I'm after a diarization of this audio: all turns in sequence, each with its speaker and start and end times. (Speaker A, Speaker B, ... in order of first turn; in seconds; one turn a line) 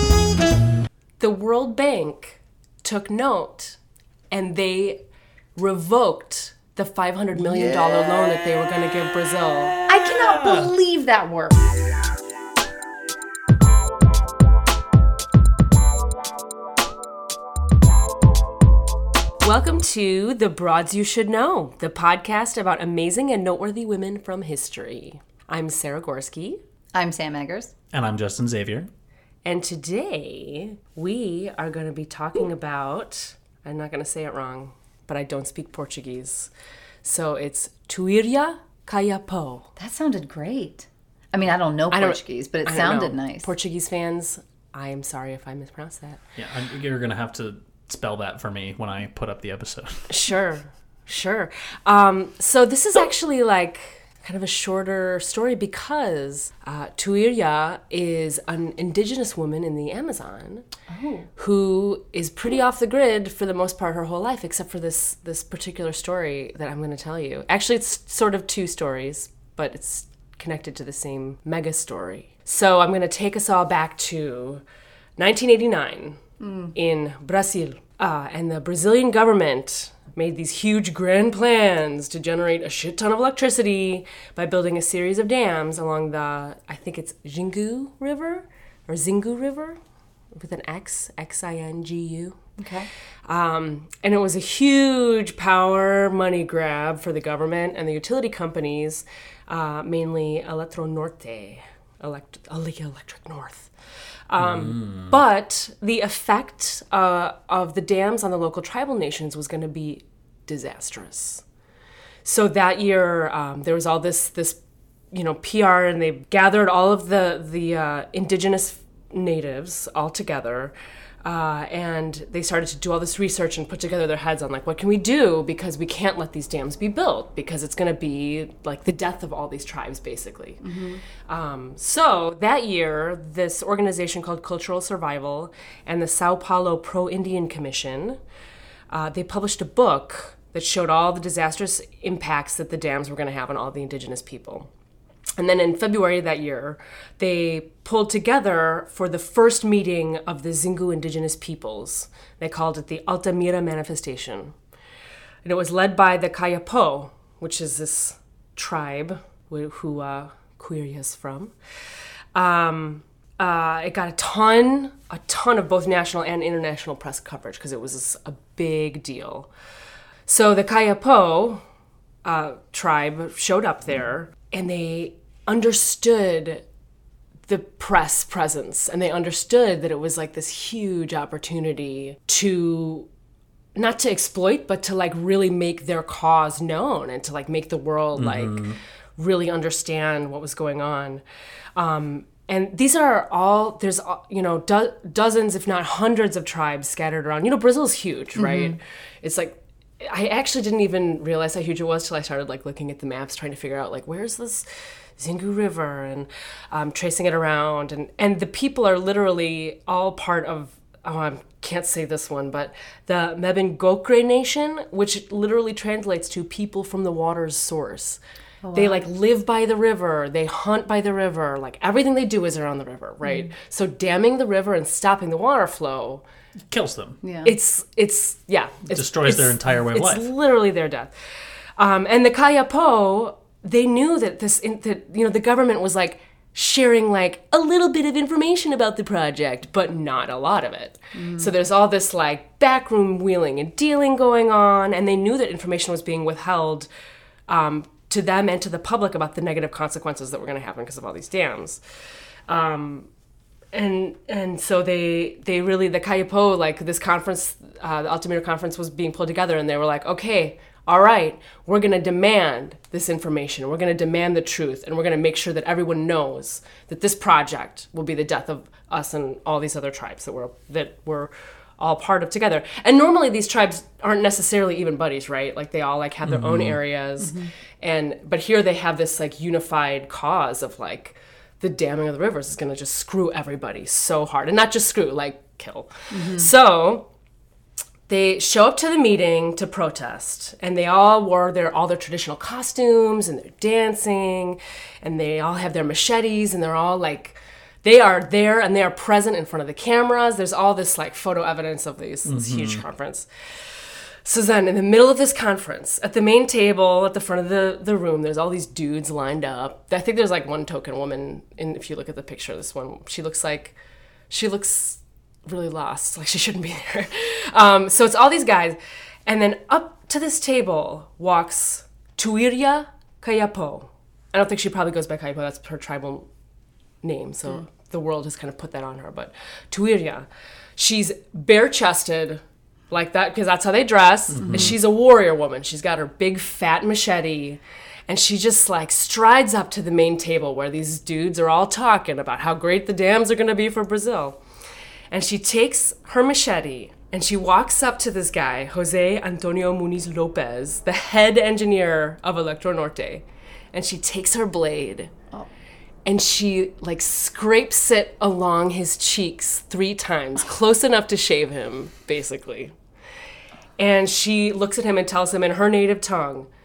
Speaker A: 1.2-3.8
Speaker A: 4.3-5.0
Speaker A: 5.6-9.8
Speaker B: 9.9-11.6
Speaker C: 9.9-10.7
Speaker A: 19.4-26.6
Speaker B: 26.9-27.7
Speaker C: 27.9-28.9
Speaker A: 29.4-36.5
Speaker A: 37.0-39.7
Speaker B: 39.8-43.5
Speaker A: 41.9-46.2
Speaker C: 46.4-50.1
Speaker A: 50.1-60.7
Speaker B: 60.9-61.3
Speaker A: 61.4-74.6
Speaker A: 75.2-76.2
Speaker B: 76.4-76.7
Speaker A: 76.7-89.8
Speaker A: 90.3-92.4
Speaker B: 92.6-92.9
Speaker A: 93.2-103.7
Speaker A: 104.3-111.4
Speaker C: 104.7-105.1
Speaker A: 112.2-114.6
Speaker A: 115.1-130.6
Speaker B: 130.6-131.0
Speaker A: 131.2-138.2
Speaker A: 138.9-144.7
Speaker A: 145.4-154.6
Speaker A: 155.4-161.5
Speaker A: 162.3-169.5
Speaker A: 170.3-171.6
Speaker A: 172.2-176.6
Speaker A: 177.5-183.1
Speaker A: 183.8-191.2
Speaker C: 188.2-188.8
Speaker A: 191.8-204.7
Speaker B: 198.3-198.8
Speaker A: 205.2-218.2
Speaker B: 218.6-219.0
Speaker A: 218.7-226.2
Speaker C: 226.7-227.2
Speaker B: 227.2-227.6
Speaker A: 227.4-231.1
Speaker C: 228.9-230.3
Speaker A: 231.8-246.9
Speaker B: 241.1-241.5
Speaker A: 247.5-251.8
Speaker A: 252.5-253.1
Speaker A: 253.7-287.1
Speaker C: 276.2-276.8
Speaker B: 277.2-277.5
Speaker B: 286.1-286.5
Speaker A: 288.1-313.8
Speaker C: 302.3-302.8
Speaker A: 314.3-326.3
Speaker A: 327.0-344.4
Speaker C: 334.4-334.8
Speaker A: 345.1-355.1
Speaker A: 356.1-362.8
Speaker A: 363.8-366.5